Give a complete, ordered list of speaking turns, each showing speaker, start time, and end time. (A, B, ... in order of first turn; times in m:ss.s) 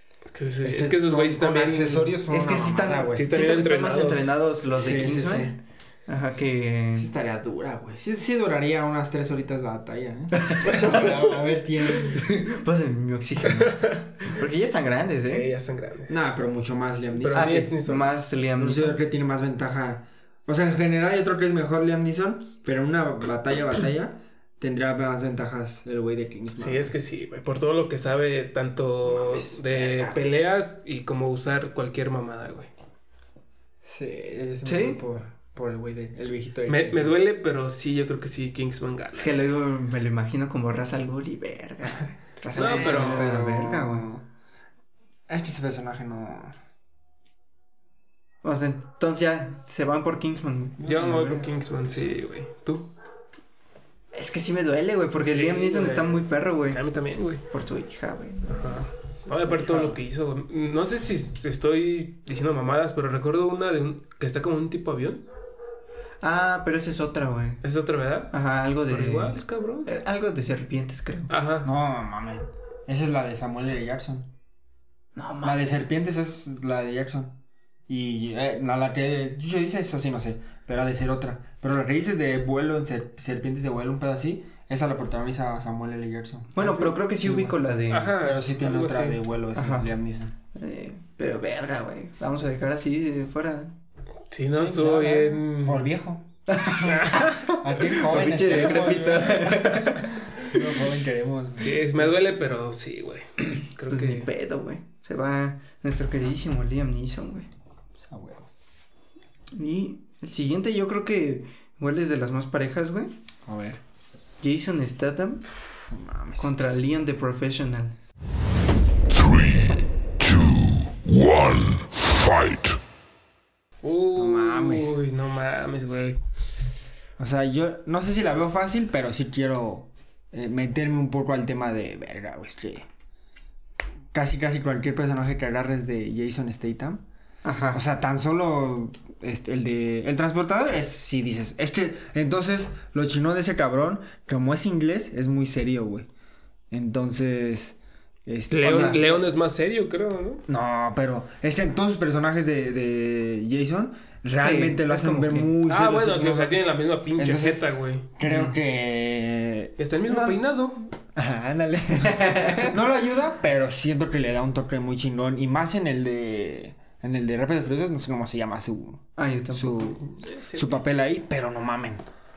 0:00.3-0:02.2 A
0:00.6-0:03.3 B
0:02.3-0:07.1 C
0:03.1-0:04.3 A
0:04.7-0:05.6 B
0:07.0-0:12.4 B
0:10.4-0:11.0 C
0:10.8-0:11.2 A
0:12.1-0:15.5 C
0:13.5-0:14.2 A
0:15.2-0:16.2 A
0:16.1-0:17.6 B
0:17.2-0:18.1 A
0:17.3-0:19.0 C
0:18.6-0:26.9 B
0:26.6-0:32.7 A
0:29.1-0:30.2 B
0:33.8-0:37.2 B
0:34.6-0:35.0 C
0:36.7-0:39.4 A
0:39.1-0:44.1 C
0:42.6-0:43.3 A
0:42.6-0:44.2 B
0:45.3-0:46.6 B
0:48.4-0:51.5 C
0:50.8-0:52.9 A
0:50.9-0:51.2 B
0:54.1-0:56.8 C
0:55.2-0:57.4 A
0:57.5-1:00.0 C
0:58.5-1:05.3 A
1:06.2-1:07.6 C
1:07.6-1:09.9 A
1:08.3-1:11.3 C
1:11.3-1:11.7 A
1:11.6-1:14.3 B
1:15.2-1:15.6 C
1:15.4-1:17.3 B
1:17.9-1:27.6 B
1:26.6-1:28.2 C
1:27.9-1:29.2 A
1:28.2-1:30.3 B
1:29.6-1:29.9 C
1:30.5-1:33.7 C
1:34.3-1:35.9 A
1:34.5-1:36.2 B
1:36.5-1:40.3 C
1:36.8-1:41.8 B
1:41.6-1:44.3 A
1:43.9-1:47.5 C
1:48.0-1:48.5 B
1:49.5-1:53.2 C
1:53.5-1:53.8 B
1:54.4-1:55.5 C
1:55.6-1:56.8 B
1:56.4-1:58.0 C
1:59.1-2:02.8 D
2:03.8-2:06.2 A
2:04.2-2:05.0 B
2:07.2-2:12.9 B
2:14.1-2:17.0 B
2:17.4-2:17.8 C
2:17.7-2:26.1 B
2:26.7-2:29.2 B
2:28.5-2:30.4 A
2:28.6-2:29.0 C
2:30.5-2:36.6 B
2:34.4-2:35.5 C
2:35.7-2:38.1 A
2:37.2-2:40.4 B
2:38.2-2:38.6 C
2:39.8-2:40.8 A
2:41.1-2:52.0 B
2:42.0-2:42.7 C
2:49.2-2:50.0 C
2:50.0-2:50.8 A